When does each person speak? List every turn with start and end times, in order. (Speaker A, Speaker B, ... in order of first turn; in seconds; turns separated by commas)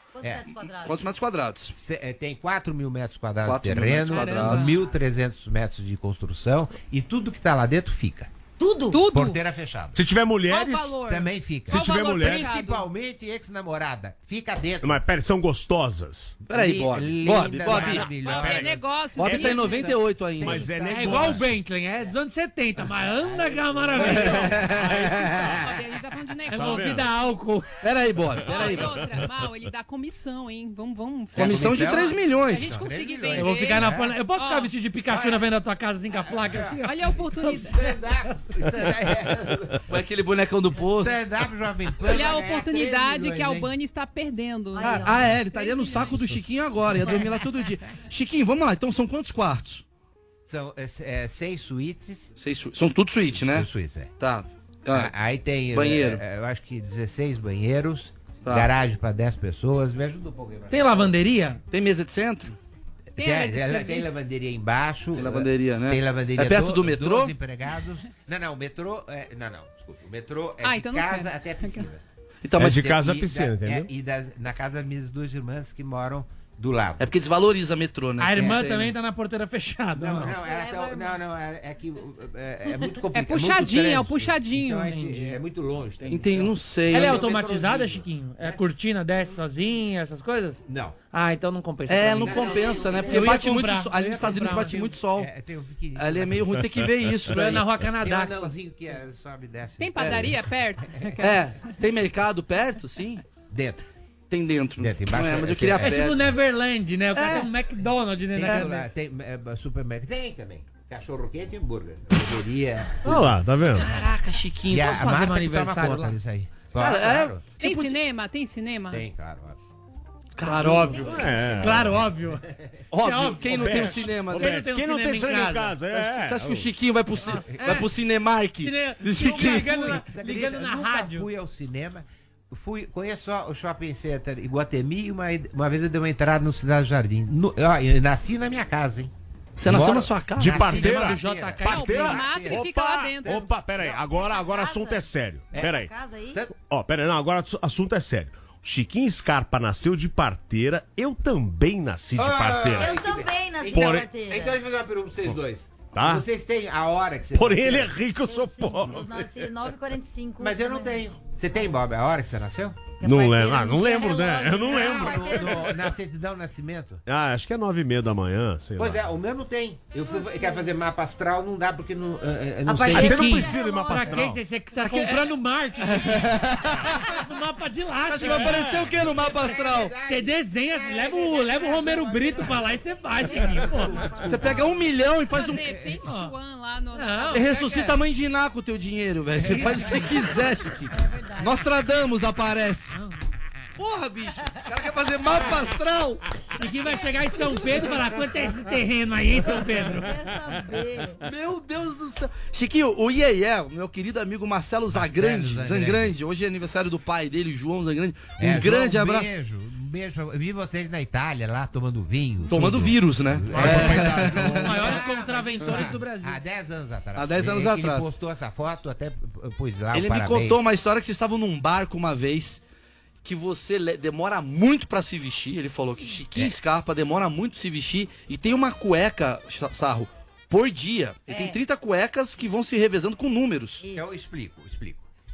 Speaker A: 0.1-1.1, Speaker B: 0.2-0.5, Speaker C: 0.8-1.8, Speaker B: 1.7-8.3, Speaker C: 3.4-4.8, Speaker D: 4.1-4.8, Speaker A: 8.6-9.0, Speaker D: 8.9-9.4, Speaker B: 9.1-10.0, Speaker E: 9.9-11.0, Speaker D: 10.5-12.9, Speaker B: 11.1-15.0, Speaker E: 11.7-12.5, Speaker E: 14.8-16.4, Speaker C: 16.5-18.1, Speaker B: 16.5-18.9, Speaker E: 17.7-21.6, Speaker D: 17.8-20.9, Speaker C: 19.2-20.7, Speaker B: 20.6-21.4, Speaker F: 20.9-24.6, Speaker C: 23.9-25.6, Speaker B: 24.0-24.7, Speaker E: 24.1-25.7, Speaker D: 25.4-27.0, Speaker F: 26.5-27.8, Speaker E: 26.5-27.1, Speaker C: 27.8-28.9, Speaker E: 28.3-29.3, Speaker D: 28.5-34.7, Speaker B: 31.3-34.2, Speaker C: 31.4-32.8, Speaker F: 33.4-37.5, Speaker B: 35.1-35.5, Speaker B: 36.1-36.9, Speaker D: 36.8-37.9, Speaker B: 37.4-39.9, Speaker C: 39.9-41.2, Speaker B: 40.9-43.7, Speaker D: 42.0-46.4, Speaker A: 44.8-45.3, Speaker F: 44.8-45.2, Speaker C: 44.9-49.8, Speaker B: 50.5-52.3, Speaker C: 52.4-53.7, Speaker B: 53.3-54.1, Speaker C: 54.2-55.1, Speaker B: 54.9-61.2, Speaker C: 55.7-56.2, Speaker C: 58.5-58.7, Speaker F: 60.7-61.6, Speaker C: 61.7-62.6, Speaker D: 63.2-64.1, Speaker B: 63.2-72.0, Speaker C: 65.2-67.3, Speaker D: 70.6-71.9, Speaker C: 72.4-72.8, Speaker E: 72.6-73.9, Speaker B: 72.6-77.1, Speaker C: 77.0-79.0, Speaker F: 78.2-80.4, Speaker B: 79.9-88.6, Speaker A: 80.2-81.2, Speaker D: 83.1-85.0, Speaker F: 84.8-85.4, Speaker C: 86.1-87.3, Speaker F: 86.9-92.5, Speaker B: 90.7-91.0, Speaker C: 91.9-95.3, Speaker B: 92.2-93.5, Speaker A: 92.3-93.3, Speaker F: 93.1-94.8, Speaker B: 94.2-96.6, Speaker C: 96.0-97.7, Speaker F: 97.3-98.5, Speaker B: 98.0-100.3, Speaker D: 99.8-101.7, Speaker C: 100.0-100.3, Speaker C: 101.2-103.2, Speaker B: 103.5-103.8, Speaker C: 104.3-106.3, Speaker B: 104.8-106.0, Speaker F: 105.8-108.9, Speaker C: 107.1-107.5, Speaker B: 108.3-113.3, Speaker E: 113.0-113.9, Speaker C: 113.8-115.2, Speaker B: 114.7-117.4, Speaker F: 114.8-116.2, Speaker C: 116.7-118.0, Speaker D: 117.6-119.0, Speaker B: 118.9-119.6, Speaker C: 120.4-121.2, Speaker F: 120.4-122.5, Speaker B: 120.6-122.1, Speaker E: 120.8-122.1, Speaker C: 122.9-124.6, Speaker F: 123.0-125.8, Speaker E: 123.4-126.7, Speaker C: 125.9-130.0, Speaker F: 127.1-127.9, Speaker F: 128.6-131.3, Speaker B: 129.2-139.1, Speaker C: 139.6-140.6, Speaker E: 139.7-145.9, Speaker B: 139.7-142.7, Speaker F: 140.6-141.8, Speaker D: 141.7-143.4, Speaker B: 143.2-144.0, Speaker A: 144.2-146.4, Speaker B: 145.5-146.5, Speaker E: 146.6-152.9, Speaker B: 152.2-158.0, Speaker A: 152.8-154.6, Speaker E: 153.7-154.1, Speaker E: 155.9-156.3, Speaker E: 157.3-159.5, Speaker A: 158.2-161.1, Speaker B: 160.4-162.9, Speaker A: 163.0-165.7, Speaker E: 163.0-165.8, Speaker B: 164.6-167.0, Speaker E: 167.1-169.1, Speaker B: 168.8-173.4, Speaker A: 172.7-174.3, Speaker E: 172.9-174.4, Speaker F: 172.9-173.5, Speaker F: 174.1-178.9, Speaker C: 174.8-175.3, Speaker C: 175.8-177.1, Speaker C: 178.0-179.9, Speaker B: 178.7-184.9, Speaker F: 179.9-184.1, Speaker D: 183.8-184.1, Speaker C: 184.2-185.7, Speaker D: 185.3-187.7, Speaker F: 185.5-186.3, Speaker F: 186.9-187.9, Speaker C: 187.3-192.9, Speaker B: 189.4-190.4, Speaker A: 190.9-191.7, Speaker C: 193.8-196.2, Speaker F: 196.6-200.1, Speaker A: 196.9-198.2, Speaker A: 199.5-201.2, Speaker C: 201.2-209.3, Speaker B: 204.9-206.2, Speaker B: 208.4-220.7, Speaker C: 212.5-214.9, Speaker E: 213.5-214.9, Speaker F: 213.5-216.4, Speaker C: 217.2-218.1, Speaker C: 219.9-222.6, Speaker C: 223.2-233.8, Speaker A: 231.3-231.6, Speaker A: 233.8-234.2, Speaker B: 233.9-235.1